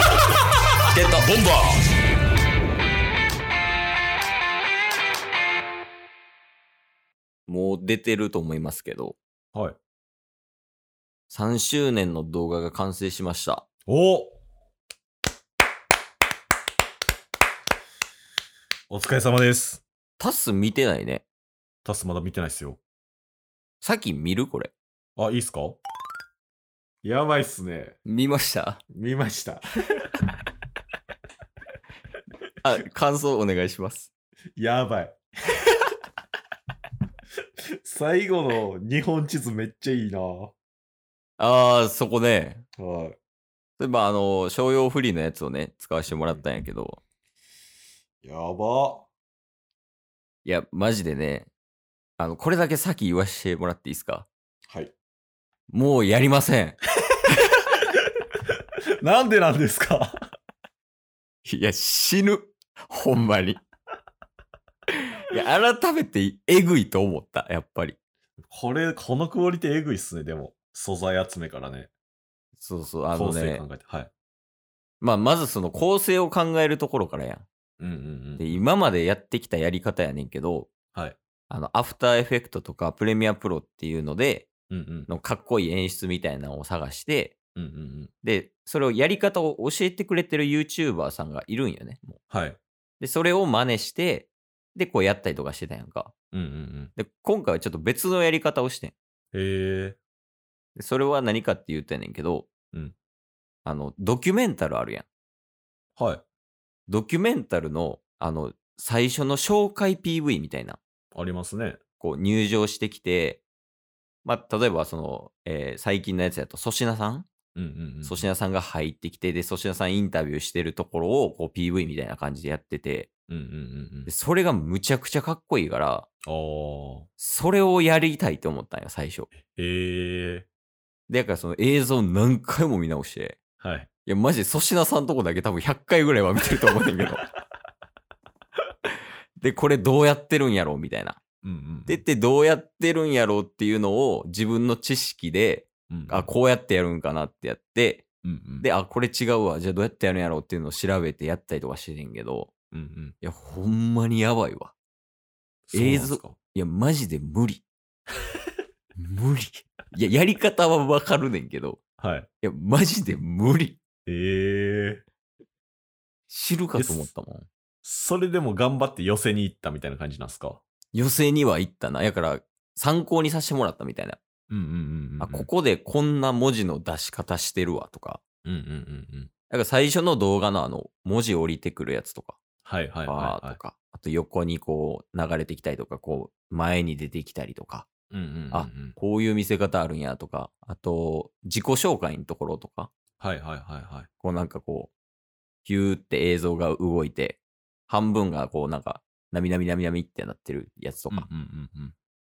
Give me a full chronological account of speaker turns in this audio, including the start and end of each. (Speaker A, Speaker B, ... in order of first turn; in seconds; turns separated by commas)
Speaker A: 0.9-1.3, Speaker B: 1.2-1.8, Speaker A: 7.5-9.2, Speaker A: 11.3-13.7, Speaker B: 13.9-14.4, Speaker B: 18.9-19.8, Speaker A: 20.2-21.2, Speaker B: 21.8-22.8, Speaker A: 23.8-24.7, Speaker B: 25.2-25.8, Speaker B: 27.0-28.0, Speaker A: 28.1-28.8, Speaker B: 28.9-30.0, Speaker A: 32.6-34.1, Speaker B: 34.6-35.1, Speaker B: 37.8-40.5, Speaker A: 41.4-42.6, Speaker B: 42.8-43.2, Speaker A: 43.8-47.0, Speaker B: 48.2-49.1, Speaker A: 50.4-51.5, Speaker A: 52.2-54.3, Speaker A: 55.7-56.8, Speaker B: 59.0-60.1, Speaker A: 61.4-63.6, Speaker A: 65.3-68.0, Speaker B: 68.4-71.9, Speaker A: 72.6-73.6, Speaker B: 73.1-74.1, Speaker A: 75.0-77.5, Speaker B: 77.8-78.6, Speaker A: 78.4-80.7, Speaker A: 81.5-84.5, Speaker B: 84.7-85.1, Speaker A: 85.1-87.3, Speaker B: 87.5-88.1, Speaker A: 88.2-92.2, Speaker B: 92.3-92.6, Speaker A: 93.0-96.1, Speaker B: 96.3-96.9, Speaker A: 97.0-99.0, Speaker B: 99.3-100.0, Speaker A: 100.8-102.5, Speaker A: 103.6-105.0, Speaker B: 106.0-106.2, Speaker A: 106.9-110.8, Speaker B: 111.1-111.8, Speaker A: 112.0-113.4, Speaker A: 114.2-117.3, Speaker B: 117.5-118.3, Speaker A: 118.0-123.1, Speaker B: 123.3-124.1, Speaker A: 124.0-126.1, Speaker B: 126.2-127.1, Speaker A: 127.2-129.3, Speaker B: 129.4-130.5, Speaker A: 131.1-133.4, Speaker B: 133.6-133.9, Speaker A: 134.1-137.2, Speaker A: 139.4-141.2, Speaker B: 141.4-142.0, Speaker A: 141.9-148.1, Speaker B: 145.9-146.3, Speaker B: 148.2-148.7, Speaker A: 148.6-152.5, Speaker B: 152.7-153.1, Speaker A: 153.2-154.7, Speaker B: 155.7-156.4, Speaker A: 155.7-157.6, Speaker A: 159.0-161.8, Speaker B: 162.0-162.3, Speaker A: 162.4-163.8, Speaker B: 164.1-165.0, Speaker A: 166.3-167.5, Speaker B: 166.8-167.1, Speaker B: 167.8-170.6, Speaker A: 170.9-174.2, Speaker B: 174.5-175.5, Speaker A: 175.2-178.2, Speaker B: 178.4-179.3, Speaker A: 179.5-182.4, Speaker B: 182.6-183.6, Speaker A: 183.1-187.9, Speaker B: 188.1-188.9, Speaker A: 188.5-192.9, Speaker B: 193.2-194.1, Speaker A: 194.2-194.9, Speaker A: 195.6-201.3, Speaker B: 201.1-201.9